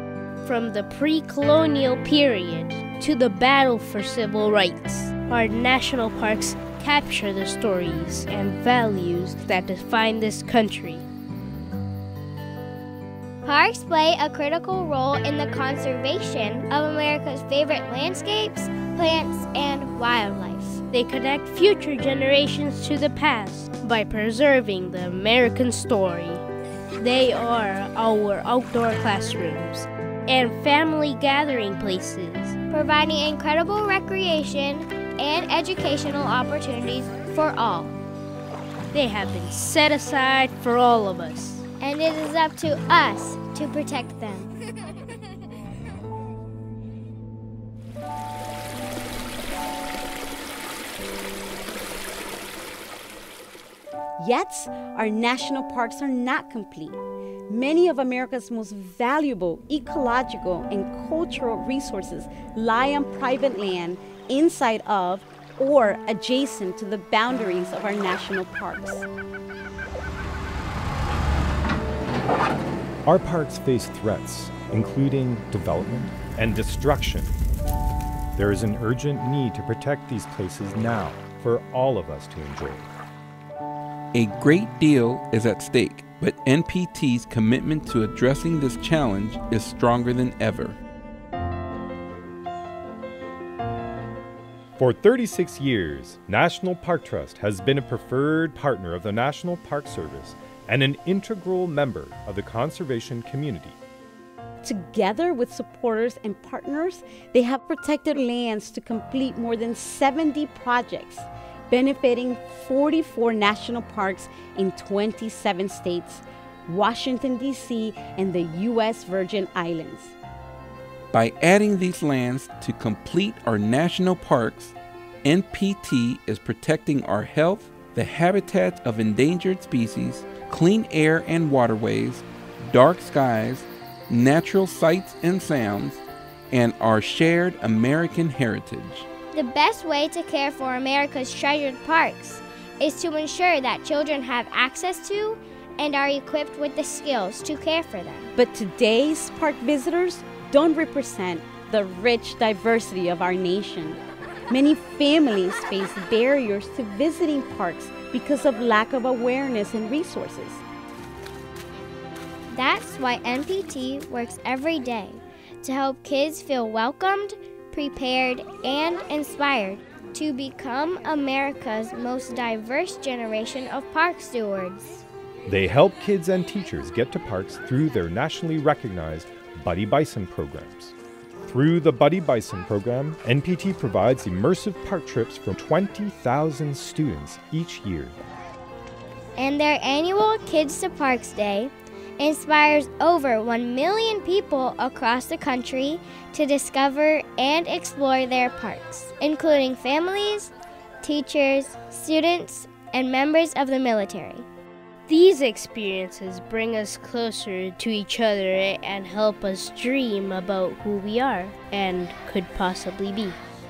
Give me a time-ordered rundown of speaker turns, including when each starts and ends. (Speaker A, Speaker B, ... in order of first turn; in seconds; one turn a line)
Speaker A: 0.4-11.1
Speaker B: 13.4-20.8
Speaker A: 20.9-26.4
Speaker A: 27.0-32.5
Speaker B: 32.7-38.0
Speaker A: 38.9-41.6
Speaker B: 41.8-44.5
Speaker C: 54.2-69.1
Speaker D: 73.1-77.3
Speaker D: 78.4-82.9
Speaker E: 84.1-90.8
Speaker D: 94.8-103.8
Speaker C: 104.6-120.1
Speaker E: 121.1-139.1
Speaker B: 139.3-148.3
Speaker C: 148.4-154.0
Speaker C: 154.5-160.6
Speaker B: 162.5-175.0
Speaker D: 175.5-188.2
Speaker B: 189.4-204.5
Speaker A: 205.1-213.4